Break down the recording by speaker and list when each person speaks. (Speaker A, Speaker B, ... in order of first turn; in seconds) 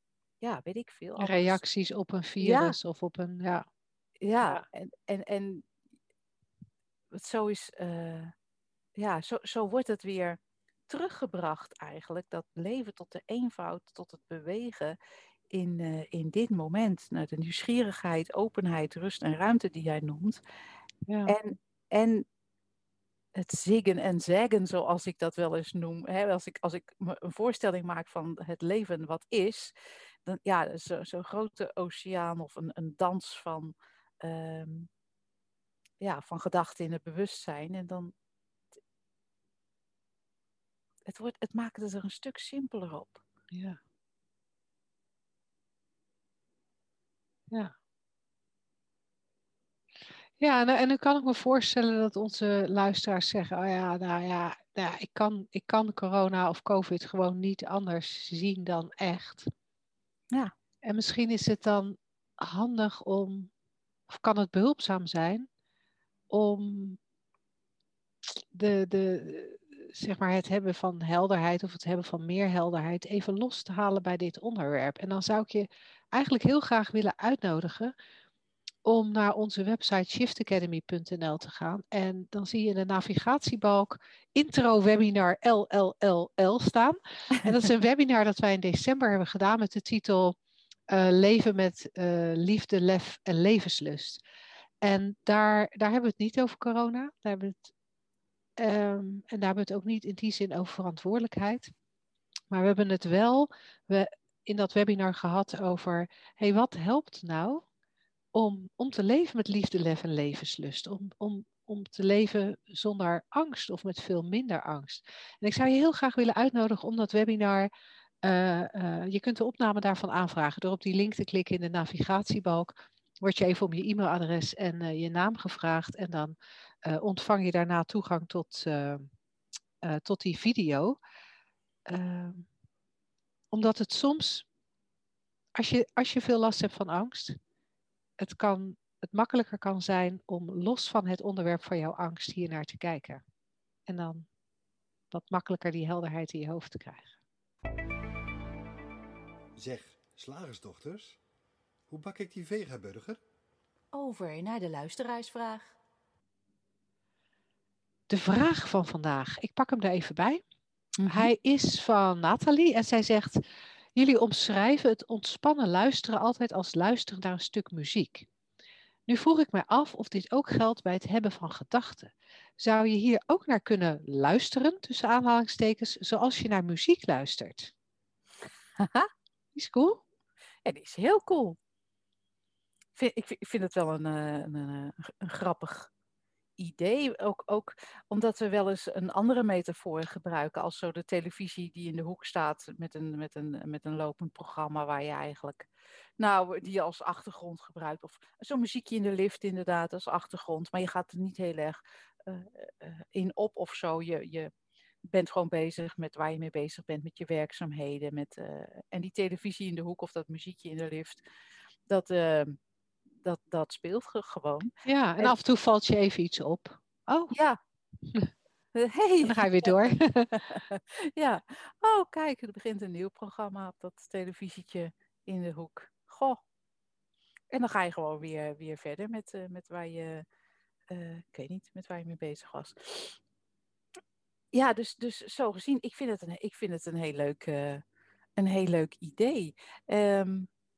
Speaker A: 0.4-1.6, 2.4-2.8, 4.2-5.7, 7.1-8.3, 9.0-15.0, 15.5-20.4, 21.3-22.2, 23.4-34.9, 36.0-38.1, 41.1-43.2, 153.9-155.7, 161.0-161.3, 178.8-179.1, 180.7-181.6, 182.9-185.9, 186.6-195.7, 196.2-204.5, 205.1-211.2, 211.9-212.6, 213.2-215.3, 217.3-217.6, 218.8-226.4, 227.5-230.2, 230.9-233.2, 234.5-237.8, 238.4-240.5
Speaker B: 1.2-3.6, 21.1-21.4, 43.5-43.8, 50.4-59.5, 60.9-63.5, 64.1-65.5, 66.3-67.0, 68.5-77.9, 78.9-90.4, 90.9-94.2, 94.8-97.7, 98.6-101.7, 102.5-107.7, 108.3-117.7, 118.2-129.1, 129.8-131.0, 131.9-132.5, 133.5-134.5, 135.6-137.4, 138.2-143.2, 143.9-144.3, 145.1-147.2, 158.1-160.4, 161.1-163.4, 163.9-168.3, 169.1-177.7, 179.6-180.0, 214.8-217.3, 219.2-220.4
Speaker C: 149.6-151.2, 151.9-153.2